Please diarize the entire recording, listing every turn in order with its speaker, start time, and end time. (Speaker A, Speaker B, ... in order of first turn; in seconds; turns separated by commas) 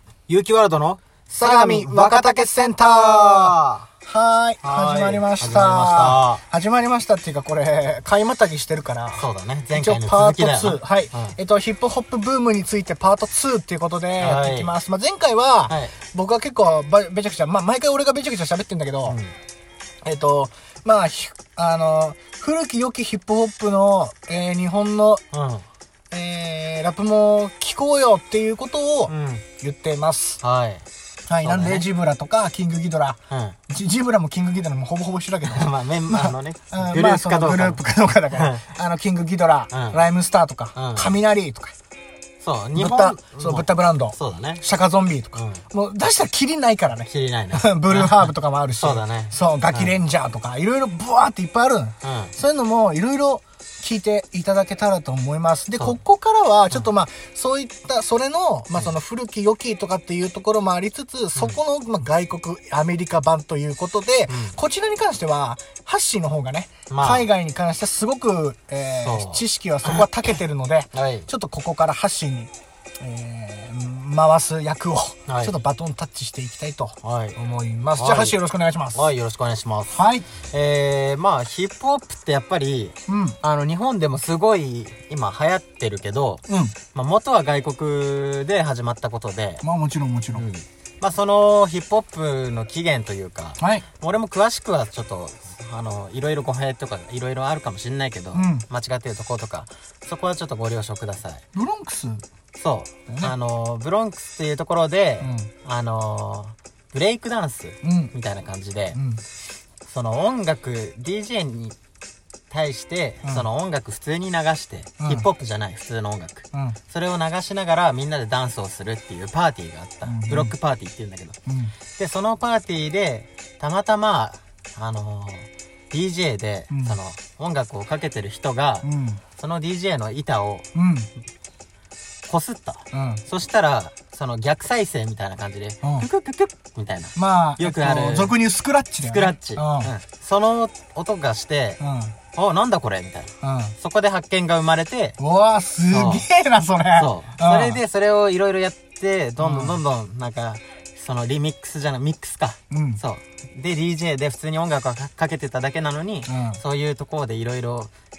Speaker A: 0.3-3.9, Speaker B: 1.4-19.2, Speaker A: 4.6-6.4, Speaker A: 9.1-11.4, Speaker A: 14.2-14.7, Speaker A: 15.7-15.9, Speaker A: 19.0-19.3, Speaker B: 20.0-25.2, Speaker A: 25.3-25.6, Speaker B: 26.1-30.4, Speaker A: 29.1-29.4, Speaker A: 30.4-30.8, Speaker B: 31.3-41.7, Speaker A: 31.4-31.9, Speaker A: 33.3-33.6, Speaker A: 35.4-38.6, Speaker A: 39.7-40.0, Speaker A: 40.7-41.1, Speaker A: 42.4-44.6, Speaker B: 42.8-79.1, Speaker A: 45.3-45.6, Speaker A: 47.1-50.0, Speaker A: 52.0-52.3, Speaker A: 64.3-64.6, Speaker A: 66.9-67.3, Speaker A: 69.0-70.1, Speaker A: 70.9-71.3, Speaker A: 75.3-75.5, Speaker A: 77.0-77.4, Speaker A: 77.9-78.4, Speaker A: 78.9-89.6, Speaker B: 79.9-80.3, Speaker B: 83.1-83.4, Speaker B: 86.5-86.8, Speaker B: 89.6-90.5, Speaker A: 90.3-101.4, Speaker B: 93.6-93.8, Speaker B: 98.3-98.7, Speaker B: 101.5-102.2, Speaker A: 102.5-109.0, Speaker B: 103.1-103.3, Speaker B: 105.2-105.5, Speaker B: 107.8-108.1, Speaker B: 108.9-109.2, Speaker A: 109.8-111.8, Speaker A: 112.5-121.4, Speaker B: 115.0-115.3, Speaker B: 116.5-116.8, Speaker B: 120.0-120.5, Speaker B: 121.5-121.7, Speaker A: 122.0-130.7, Speaker B: 126.7-127.0, Speaker B: 128.8-129.2, Speaker B: 130.7-131.1, Speaker A: 132.3-138.4, Speaker B: 132.9-133.2, Speaker B: 137.2-139.9, Speaker A: 139.1-141.8, Speaker B: 141.8-142.1, Speaker A: 142.3-145.2, Speaker B: 143.4-143.7, Speaker B: 145.2-147.8, Speaker A: 145.9-146.2, Speaker A: 146.9-157.9, Speaker B: 149.4-149.8, Speaker B: 152.7-153.0, Speaker B: 156.2-156.6